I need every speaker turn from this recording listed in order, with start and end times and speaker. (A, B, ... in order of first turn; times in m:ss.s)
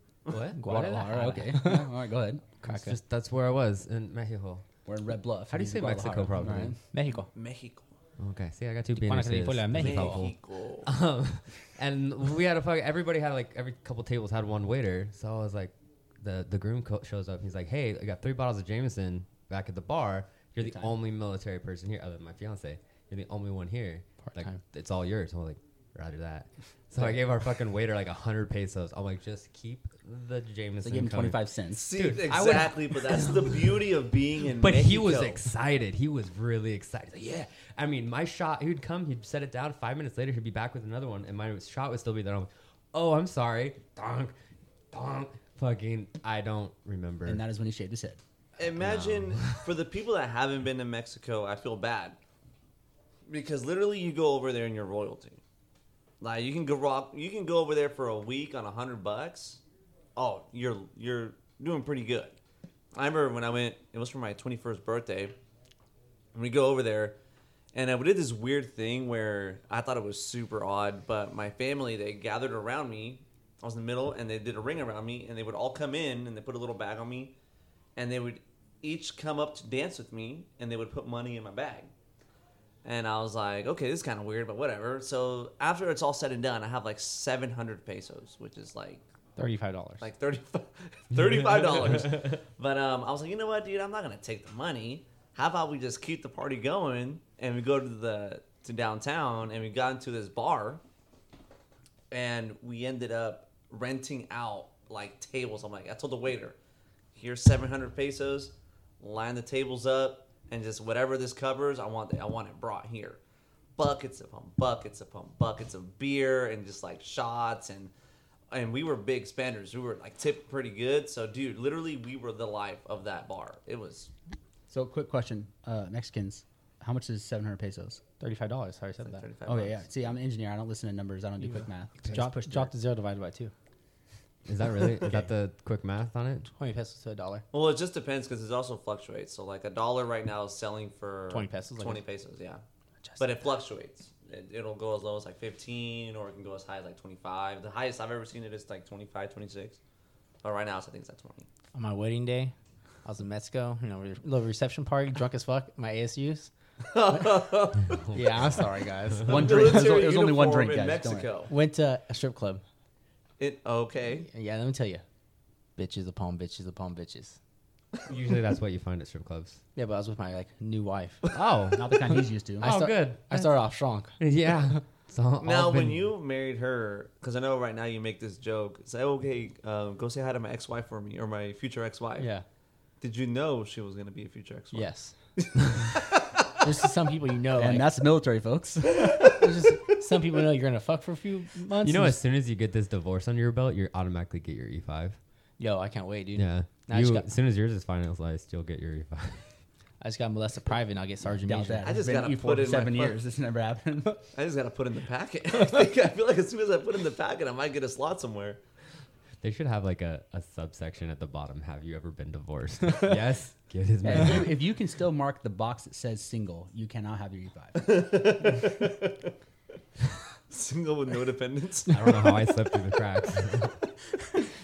0:00.3-0:01.0 A
0:00.6-0:01.9 B
0:00.6-0:02.4 C
0:02.6-0:03.0 B
0:02.6-0:04.6 A
0:04.9-0:06.8 C
0:05.5-0:06.8 A
0:06.9-0:07.3 B
0:07.1-0:07.9 D
0:08.2-0:33.8 A
0:08.9-0:10.3 B
0:09.7-0:10.9 D
0:20.6-0:21.0 C
0:24.2-0:24.6 B
0:30.8-0:31.9 C
0:31.7-0:35.4 D
0:34.6-0:44.3 A
0:44.9-0:47.4 A
0:47.2-0:48.2 C
0:48.6-0:52.2 D
0:48.7-0:49.7 A
0:53.3-0:55.4 D
0:56.2-0:59.6 D
1:00.2-1:02.4 D
1:02.9-1:05.4 D
1:06.3-1:07.2 D
1:07.7-1:17.3 D
1:18.0-1:21.9 D
1:22.8-1:29.0 D
1:29.4-1:30.1 B
1:30.0-1:40.8 D
1:42.1-1:46.6 D
1:47.1-1:53.2 D
1:53.8-1:57.9 D
1:58.5-2:04.1 D
2:04.7-2:08.0 C
2:08.2-2:09.3 B
2:09.0-2:09.9 D
2:09.5-2:12.7 C
2:11.4-2:13.5 B
2:14.5-2:16.5 A
2:16.5-2:17.4 B
2:17.5-2:22.6 D
2:21.3-2:22.0 B
2:23.2-2:29.8 D
2:30.4-2:31.5 D
2:31.7-2:32.5 B
2:33.0-2:36.5 B
2:36.8-2:38.0 D
2:37.1-2:37.4 B
2:38.0-2:38.8 A
2:38.1-2:39.7 B
2:39.2-2:41.5 D
2:39.3-2:41.3 C
2:41.5-2:42.6 B
2:43.4-2:44.3 D
2:44.2-2:45.0 B
2:45.8-2:47.4 B
2:48.1-2:49.6 A
2:49.8-2:51.2 B
2:51.3-2:52.0 A
2:51.7-2:52.7 C
2:52.6-2:53.6 A
2:52.6-2:54.8 B
2:54.2-2:56.1 A
2:55.4-3:02.3 D
3:02.2-3:02.4 B
3:03.0-3:06.5 D
3:04.7-3:05.2 B
3:06.6-3:07.9 B
3:07.6-3:09.4 C
3:09.0-3:09.3 D
3:09.3-3:12.2 B
3:11.8-3:15.2 A
3:15.6-3:17.3 B
3:16.4-3:19.4 A
3:20.0-3:21.9 B
3:21.3-3:24.2 C
3:21.8-3:23.2 D
3:24.3-3:28.6 D
3:29.4-3:34.6 A
3:34.0-3:38.0 C
3:37.8-3:39.3 D
3:40.5-3:42.3 D
3:41.9-3:43.8 A